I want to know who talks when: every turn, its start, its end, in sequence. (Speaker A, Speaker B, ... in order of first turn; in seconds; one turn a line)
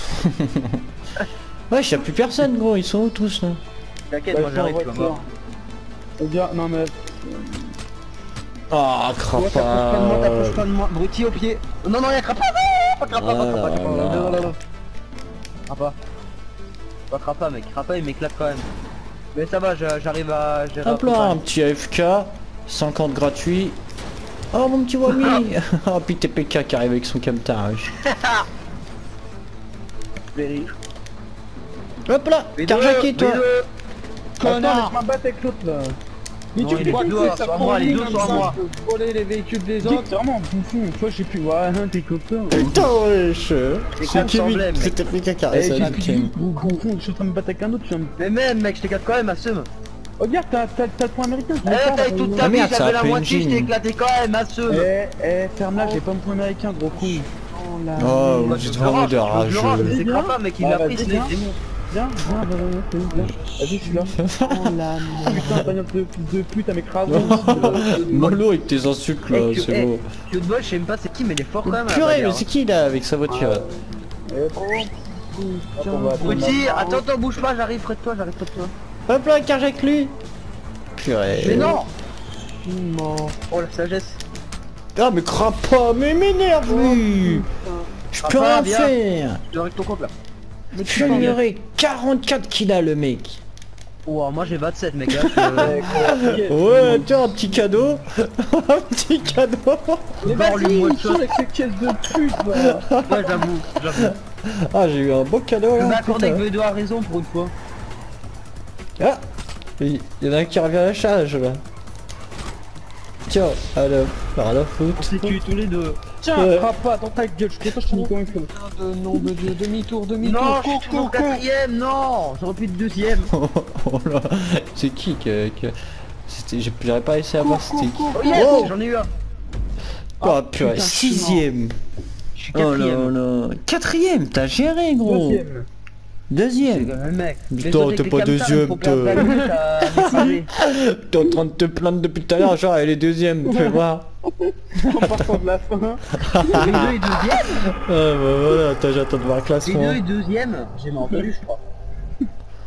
Speaker A: 0.1-0.8
Speaker A: 1.7-3.6
Speaker B: 4.1-5.1
Speaker C: 4.3-5.2
Speaker C: 6.2-7.7
Speaker A: 8.7-10.6
Speaker B: 9.3-14.6
Speaker A: 13.1-14.5
Speaker B: 15.7-16.0
Speaker B: 17.1-18.7
Speaker B: 19.3-21.4
Speaker A: 20.8-23.8
Speaker A: 24.5-27.9
Speaker B: 25.1-25.4
Speaker B: 28.0-28.4
Speaker B: 30.3-30.7
Speaker A: 32.1-33.4
Speaker B: 32.5-33.7
Speaker D: 34.4-35.0
Speaker C: 34.4-36.0
Speaker C: 36.5-38.5
Speaker B: 36.6-38.5
Speaker D: 36.7-40.1
Speaker C: 39.8-42.9
Speaker A: 42.5-46.3
Speaker B: 44.0-44.9
Speaker C: 45.5-48.1
Speaker B: 45.7-46.0
Speaker B: 48.2-49.7
Speaker C: 50.2-52.5
Speaker B: 51.6-54.9
Speaker A: 52.4-53.7
Speaker C: 54.7-57.3
Speaker D: 55.7-56.0
Speaker D: 56.9-58.9
Speaker A: 58.0-60.0
Speaker B: 58.5-61.4
Speaker C: 59.8-64.2
Speaker D: 63.1-65.7
Speaker A: 64.2-64.8
Speaker C: 65.2-68.4
Speaker A: 65.3-65.7
Speaker A: 67.1-70.0
Speaker D: 67.3-68.2
Speaker B: 69.3-72.4
Speaker A: 71.6-73.7
Speaker C: 73.3-74.9
Speaker D: 74.5-76.8
Speaker C: 75.8-77.0
Speaker B: 76.2-78.7
Speaker A: 79.1-80.1
Speaker A: 81.0-81.8
Speaker B: 81.3-81.9
Speaker D: 81.4-81.8
Speaker D: 82.3-83.3
Speaker B: 83.5-84.2
Speaker A: 84.9-87.5
Speaker D: 86.6-87.9
Speaker A: 88.1-89.4
Speaker B: 88.2-90.1
Speaker D: 90.7-91.4
Speaker A: 90.8-93.4
Speaker B: 90.9-91.3
Speaker B: 94.0-95.8
Speaker A: 95.1-100.1
Speaker C: 95.6-97.4
Speaker B: 100.2-101.3
Speaker C: 100.2-102.8
Speaker A: 102.6-106.4
Speaker B: 103.1-104.1
Speaker B: 105.8-107.5
Speaker A: 109.8-111.6
Speaker A: 113.3-115.1
Speaker B: 115.0-116.0
Speaker C: 116.2-118.5
Speaker A: 116.3-116.7
Speaker D: 117.8-121.4
Speaker B: 120.2-123.3
Speaker A: 123.3-125.7
Speaker A: 126.3-128.7
Speaker D: 127.4-128.7
Speaker B: 128.2-129.1
Speaker A: 130.2-131.8
Speaker D: 130.3-131.4
Speaker B: 132.3-133.1
Speaker A: 132.5-135.4
Speaker C: 135.0-135.7
Speaker A: 136.3-136.9
Speaker B: 136.6-140.5
Speaker A: 137.5-139.3
Speaker A: 140.1-144.1
Speaker C: 143.5-143.8
Speaker C: 144.4-146.8
Speaker A: 146.2-146.8
Speaker B: 146.6-147.5
Speaker A: 147.4-150.0
Speaker B: 149.6-151.6